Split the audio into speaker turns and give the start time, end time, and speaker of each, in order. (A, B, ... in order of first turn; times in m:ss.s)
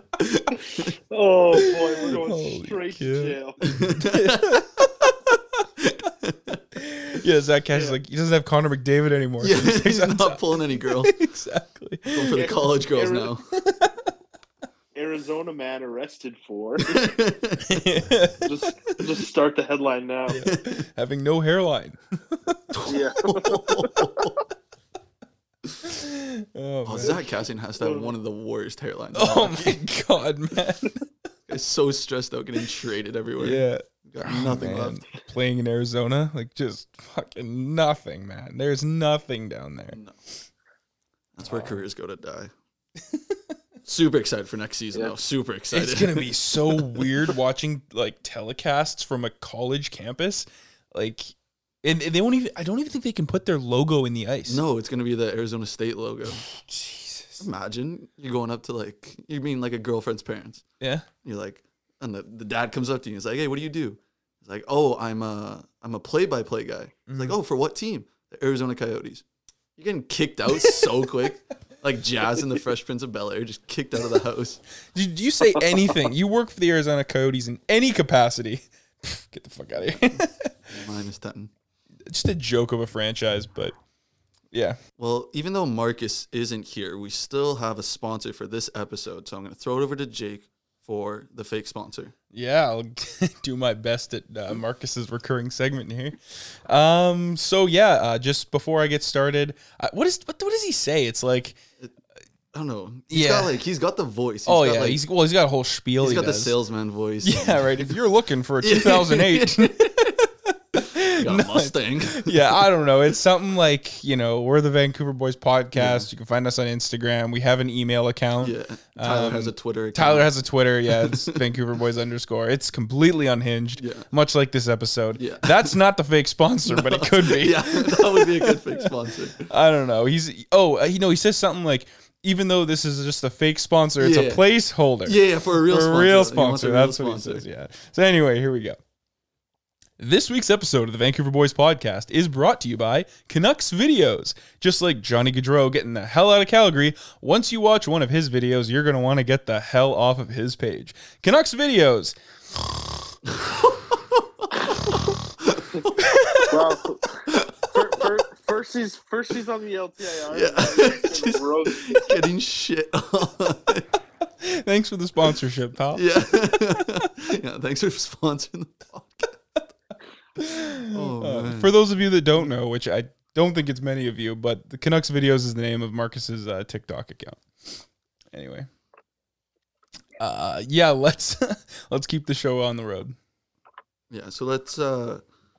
0:00.2-0:00.9 A
0:01.1-0:03.6 B
0:01.6-0:05.3 C
0:03.6-0:04.8 A
0:05.8-0:06.6 A
0:06.8-0:12.4 C
0:09.4-0:11.1 A
0:12.1-0:13.4 A
0:12.3-0:13.3 B
0:13.6-0:14.0 C
0:15.0-0:17.1 B
0:16.8-0:17.8 A
0:17.6-0:18.5 C
0:18.4-0:20.4 B
0:20.3-0:22.8 C
0:20.4-0:20.7 A
0:22.7-0:24.3 A
0:22.9-0:24.2 B
0:25.8-0:27.2 C
0:26.8-0:29.8 A
0:27.8-0:28.1 B
0:29.1-0:31.0 C
0:31.5-0:35.0 A
0:33.4-0:40.0 C
0:41.4-0:42.5 A
0:41.4-0:41.8 C
0:43.1-0:43.4 C
0:43.8-0:47.1 A
0:45.7-0:54.6 C
0:54.5-0:56.4 A
0:56.5-0:57.4 C
0:57.4-1:00.6 A
1:00.8-1:01.1 C
1:01.2-1:09.2 A
1:07.1-1:07.4 C
1:09.8-1:14.6 A
1:14.9-1:20.7 C
1:19.9-1:21.5 A
1:22.1-1:23.8 C
1:24.5-1:24.8 C
1:25.0-1:32.1 A
1:32.3-1:41.6 C
1:42.5-1:45.0 A
1:43.1-1:43.6 C
1:44.5-1:46.6 C
1:46.0-1:47.9 A
1:47.2-1:49.9 C
1:48.6-1:50.2 A
1:50.7-2:08.9 C
1:51.2-1:52.6 A
1:55.8-1:56.1 A
1:58.4-2:00.3 A
2:00.8-2:01.4 A
2:03.8-2:04.1 A
2:05.2-2:05.8 A
2:06.7-2:09.5 A
2:09.4-2:18.8 C
2:14.0-2:14.4 A
2:15.0-2:17.4 A
2:20.0-2:32.2 C
2:33.3-2:35.9 A
2:36.0-2:36.6 C
2:36.5-2:42.0 B
2:37.3-2:37.7 A
2:40.3-2:43.9 A
2:44.4-2:46.0 C
2:45.9-2:49.3 A
2:50.4-2:57.8 C
2:50.8-2:51.8 A
2:58.3-2:58.7 C
3:00.2-3:03.2 C
3:04.1-3:05.2 A